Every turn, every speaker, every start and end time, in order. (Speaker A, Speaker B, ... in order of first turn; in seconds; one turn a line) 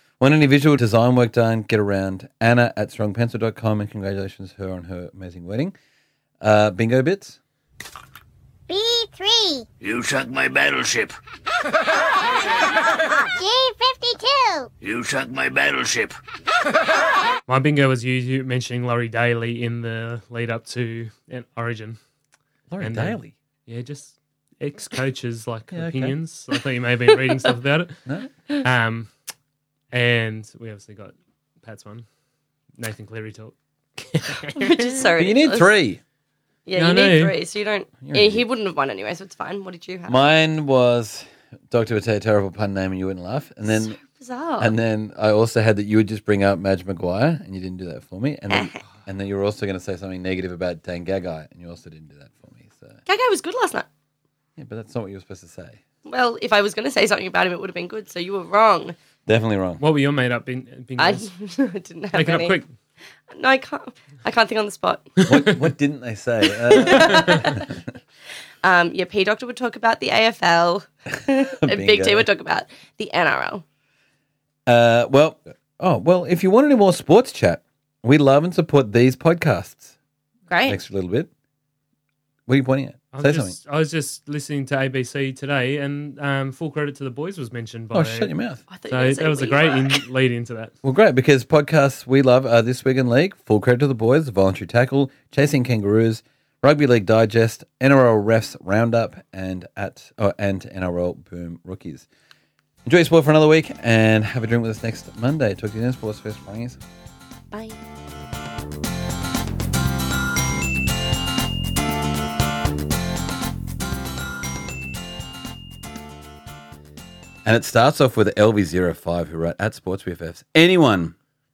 Speaker A: 0.2-5.7
Speaker A: 6.4-7.4
Speaker B: 8.7-9.7
Speaker C: 9.8-11.1
Speaker B: 13.2-14.7
Speaker C: 14.8-16.1
Speaker D: 17.5-22.0
Speaker A: 22.7-23.3
Speaker D: 22.8-28.0
Speaker A: 25.7-26.2
Speaker D: 28.6-29.1
Speaker D: 29.9-32.0
Speaker D: 32.8-34.8
Speaker E: 34.5-35.7
Speaker A: 35.2-36.0
Speaker E: 36.7-40.2
Speaker D: 36.8-37.4
Speaker A: 38.0-38.5
Speaker A: 40.1-44.0
Speaker E: 43.7-44.8
Speaker A: 44.6-53.0
Speaker E: 48.5-48.8
Speaker E: 53.1-53.9
Speaker A: 54.6-55.8
Speaker E: 56.0-59.0
Speaker A: 59.3-59.8
Speaker D: 59.8-61.3
Speaker E: 61.0-62.6
Speaker D: 62.1-62.7
Speaker E: 63.3-65.2
Speaker D: 65.2-65.5
Speaker A: 65.3-67.7
Speaker E: 66.7-67.6
Speaker D: 67.0-67.4
Speaker E: 68.6-73.6
Speaker A: 71.3-72.3
Speaker A: 74.7-80.0
Speaker E: 80.5-80.8
Speaker A: 80.7-81.3
Speaker A: 82.5-83.5
Speaker D: 83.1-88.3
Speaker A: 87.9-88.6
Speaker E: 88.7-90.0
Speaker D: 88.9-90.7
Speaker A: 90.8-102.1
Speaker A: 102.8-106.8
Speaker E: 107.5-107.8
Speaker A: 117.5-121.2